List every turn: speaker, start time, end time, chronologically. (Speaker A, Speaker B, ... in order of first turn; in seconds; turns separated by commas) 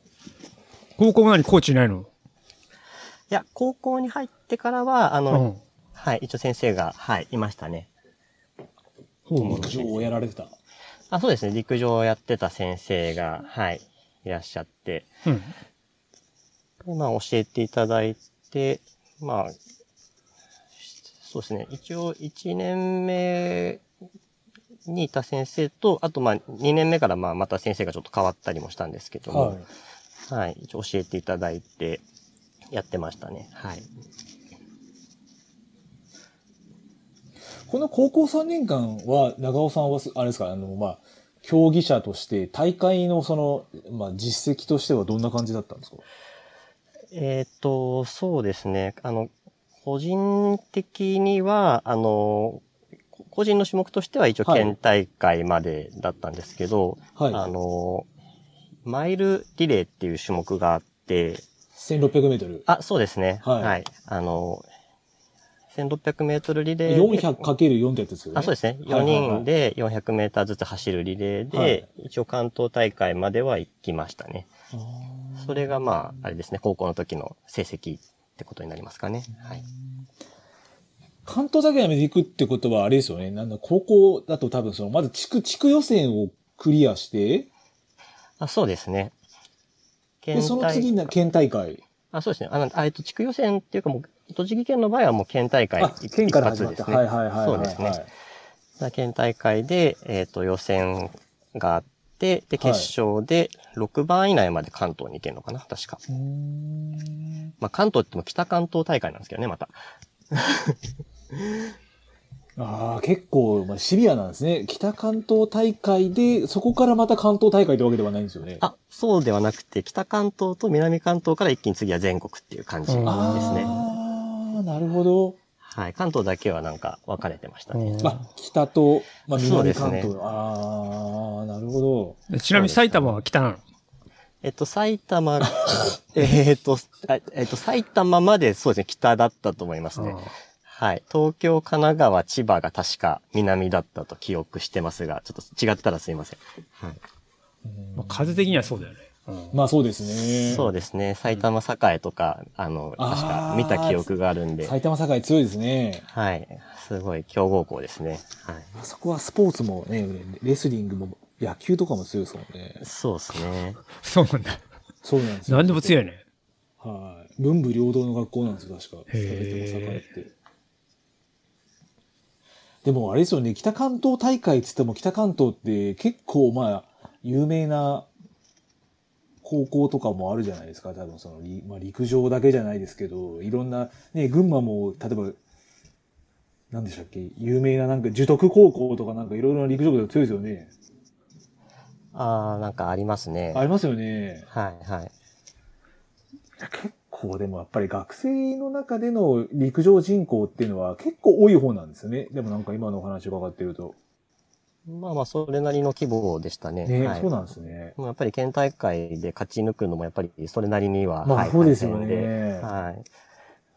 Speaker A: 1.0-2.1, Speaker B: 3.3-7.9, Speaker A: 5.3-5.6, Speaker A: 9.3-9.7, Speaker C: 9.4-10.5, Speaker B: 9.4-10.1, Speaker B: 11.1-15.1, Speaker A: 15.3-15.5, Speaker B: 16.8-19.6, Speaker B: 20.8-23.8, Speaker B: 24.9-29.6, Speaker C: 29.3-29.7, Speaker B: 30.3-32.0, Speaker B: 32.7-33.9, Speaker C: 37.7-46.0, Speaker B: 47.1-49.3, Speaker B: 49.8-52.6, Speaker B: 53.2-58.1, Speaker C: 54.4-54.7, Speaker C: 57.2-57.5, Speaker B: 58.9-61.5, Speaker C: 61.8-62.7, Speaker B: 62.7-64.7, Speaker C: 63.4-63.8, Speaker B: 65.7-67.5, Speaker C: 66.9-69.5, Speaker B: 68.3-74.5, Speaker C: 71.5-71.9, Speaker C: 74.7-75.6, Speaker B: 75.4-79.6, Speaker C: 81.3-87.5, Speaker B: 88.4-89.1, Speaker B: 90.2-91.1, Speaker C: 90.3-91.8, Speaker B: 92.1-98.0, Speaker C: 95.8-98.1, Speaker B: 98.8-106.0, Speaker C: 102.6-102.9, Speaker C: 106.1-107.5, Speaker B: 107.6-109.8, Speaker B: 110.3-110.8, Speaker C: 112.6-118.6, Speaker B: 118.6-123.7, Speaker A: 122.9-123.9, Speaker C: 123.0-125.4, Speaker B: 125.6-128.1, Speaker A: 127.7-128.2, Speaker C: 128.0-132.2, Speaker B: 129.3-130.1, Speaker A: 132.3-133.6, Speaker B: 132.5-133.2, Speaker B: 134.4-147.0, Speaker A: 140.0-140.3, Speaker C: 147.7-148.9, Speaker A: 148.0-149.6, Speaker C: 149.5-150.7, Speaker B: 150.4-154.8, Speaker C: 153.0-154.1, Speaker C: 154.6-156.1, Speaker B: 156.1-158.7, Speaker C: 158.8-162.8, Speaker B: 162.8-163.8, Speaker A: 164.0-164.6, Speaker C: 165.0-166.0, Speaker A: 165.5-166.2, Speaker C: 166.8-170.3, Speaker A: 169.1-170.1, Speaker C: 172.8-178.1, Speaker C: 179.4-185.4, Speaker C: 186.7-190.7, Speaker B: 192.1-193.7, Speaker C: 193.5-194.5, Speaker B: 194.5-195.1, Speaker C: 196.6-204.0, Speaker B: 204.9-207.3, Speaker C: 206.8-207.9, Speaker B: 208.0-213.1, Speaker C: 211.2-212.7